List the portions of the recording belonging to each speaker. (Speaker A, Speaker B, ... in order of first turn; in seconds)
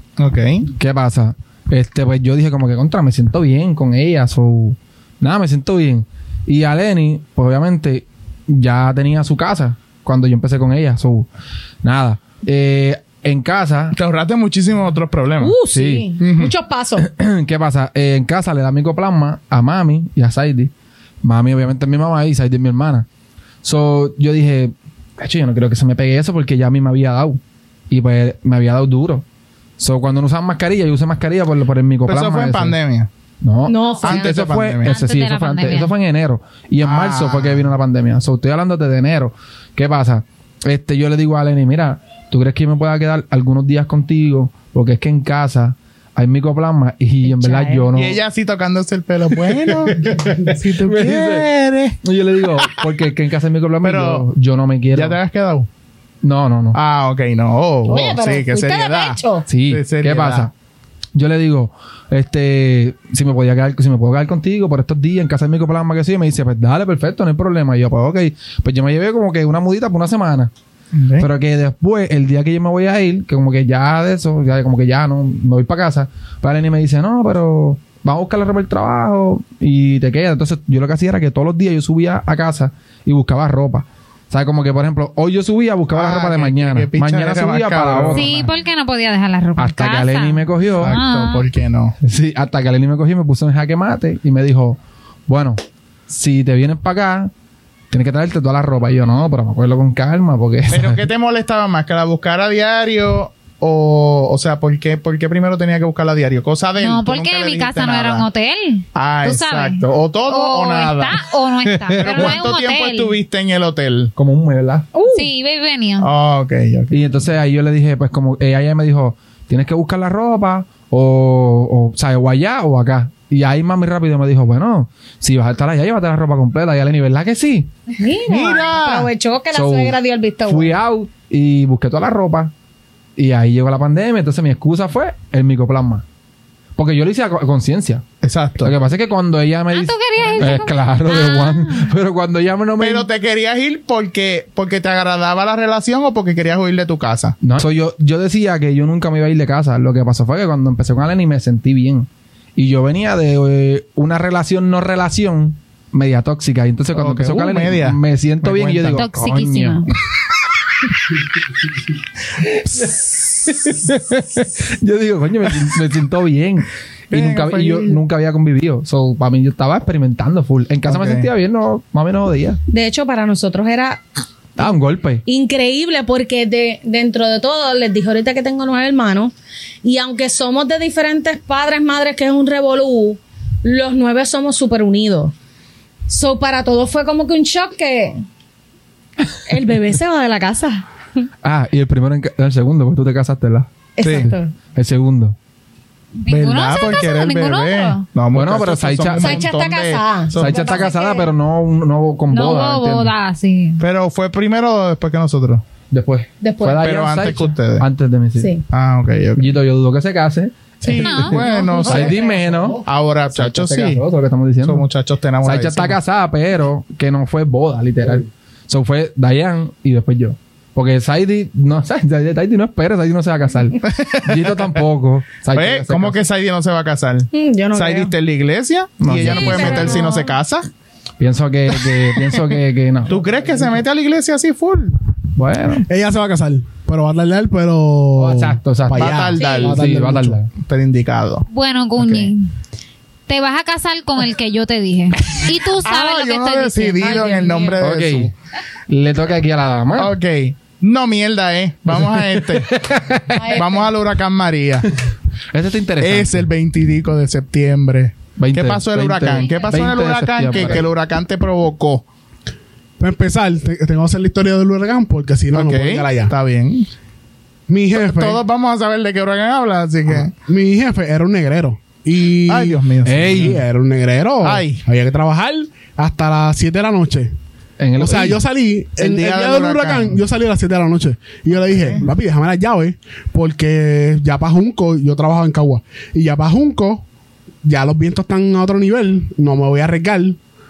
Speaker A: 0.2-0.7, 13.9-15.6, 16.2-16.5, 32.0-33.1, 34.0-34.9, 36.8-37.7, 47.9-52.0, 52.6-52.8, 53.8-54.3, 54.9-55.7, 56.7-60.5, 70.9-71.3, 85.9-88.5, 90.8-92.0, 100.7-108.2, 108.9-111.2, 112.0-114.1, 116.0-117.1, 128.3-129.1, 138.2-138.7, 142.8-147.4, 156.9-159.0, 167.1-168.0, 170.8-171.3, 194.0-194.3, 196.3-200.9, 203.8-205.6, 206.8-207.9, 208.7-209.6, 210.8-212.3, 212.8-214.0, 214.6-216.0, 223.8-224.7, 225.5-230.7, 231.8-232.6, 233.1-235.0, 238.9-239.8, 240.6-241.5, 245.4-248.3, 249.9-252.7, 253.5-254.9, 256.0-262.1, 265.5-266.9, 267.9-270.3, 272.5-273.6, 274.4-274.8, 279.0-280.2, 281.5-282.0
Speaker B: 0.7-11.3, 11.8-13.9, 15.6-16.1, 17.0-20.7, 21.2-23.1, 23.6-29.2, 29.8-32.8, 33.4-48.2, 49.3-51.5, 52.0-55.2, 56.2-56.8, 59.5-60.5, 61.1-70.5, 71.2-88.3, 89.6-91.0, 92.0-97.3, 97.9-101.0, 111.7-112.3, 114.2-114.9, 116.9-127.7, 129.5-132.5, 133.2-136.0, 136.8-138.0, 138.6-143.1, 147.4-159.9, 162.4-172.6, 174.6-175.2, 191.4-195.3, 198.3-199.4, 200.3-203.1, 205.9-208.6, 209.4-214.9, 215.4-226.2, 229.1-230.1, 231.2-233.4, 235.3-235.8, 238.2-240.5, 242.0-242.3, 247.8-248.3, 248.9-250.1, 252.0-253.6, 255.5-256.5, 258.4-260.9, 273.0-273.6, 277.8-278.4
Speaker C: 15.4-17.0, 33.6-34.4, 47.2-47.9, 57.9-59.5, 115.0-115.3, 127.9-130.7, 172.7-174.0, 175.2-185.3, 186.1-188.2, 189.5-191.3, 194.0-194.5, 199.2-201.3, 206.4-206.8, 208.4-208.6, 227.3-228.1, 229.2-230.3, 253.3-253.8
Speaker D: 34.8-35.9, 88.2-91.5, 106.8-113.1, 115.1-116.1, 139.7-141.9, 158.9-159.9, 196.2-198.0, 202.3-203.8, 210.9-212.1, 241.5-242.5, 243.3-247.8, 259.3-260.0
Speaker E: 212.0-212.8, 235.9-240.4, 263.0-266.3, 267.7-268.4, 270.1-277.3, 278.0-287.0, 287.6-290.4